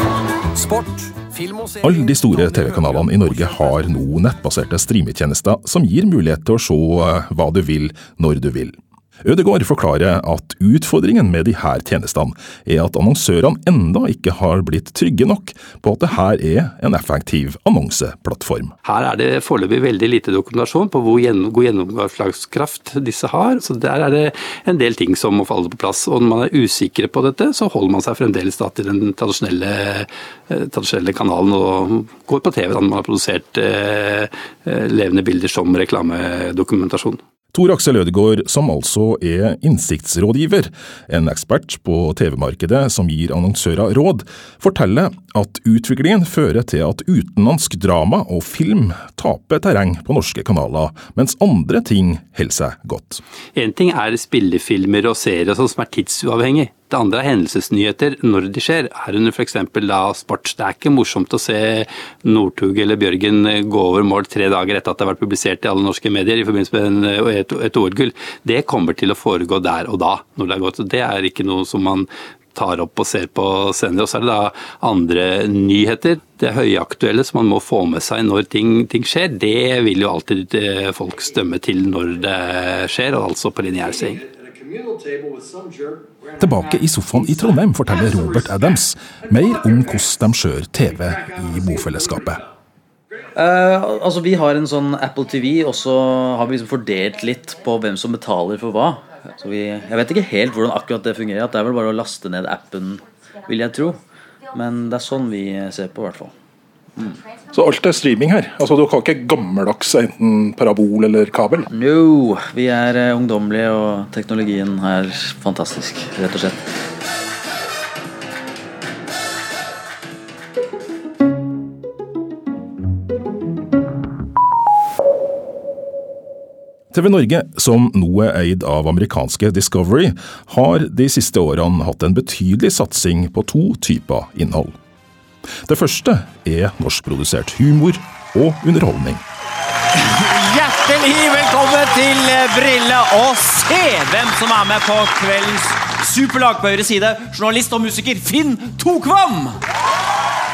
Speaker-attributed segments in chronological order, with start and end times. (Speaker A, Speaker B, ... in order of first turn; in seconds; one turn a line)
Speaker A: 0.5-3.4
Speaker B: 1.8-18.7
Speaker C: 18.8-37.2
Speaker B: 37.5-53.2
Speaker C: 53.5-84.2
Speaker A: 84.6-86.0
Speaker B: 86.4-92.4
Speaker D: 93.3-104.0
Speaker D: 104.5-106.3
Speaker B: 107.5-111.7
Speaker D: 111.7-116.7
Speaker B: 126.9-134.7
Speaker B: 135.6-139.2
Speaker E: 140.1-149.6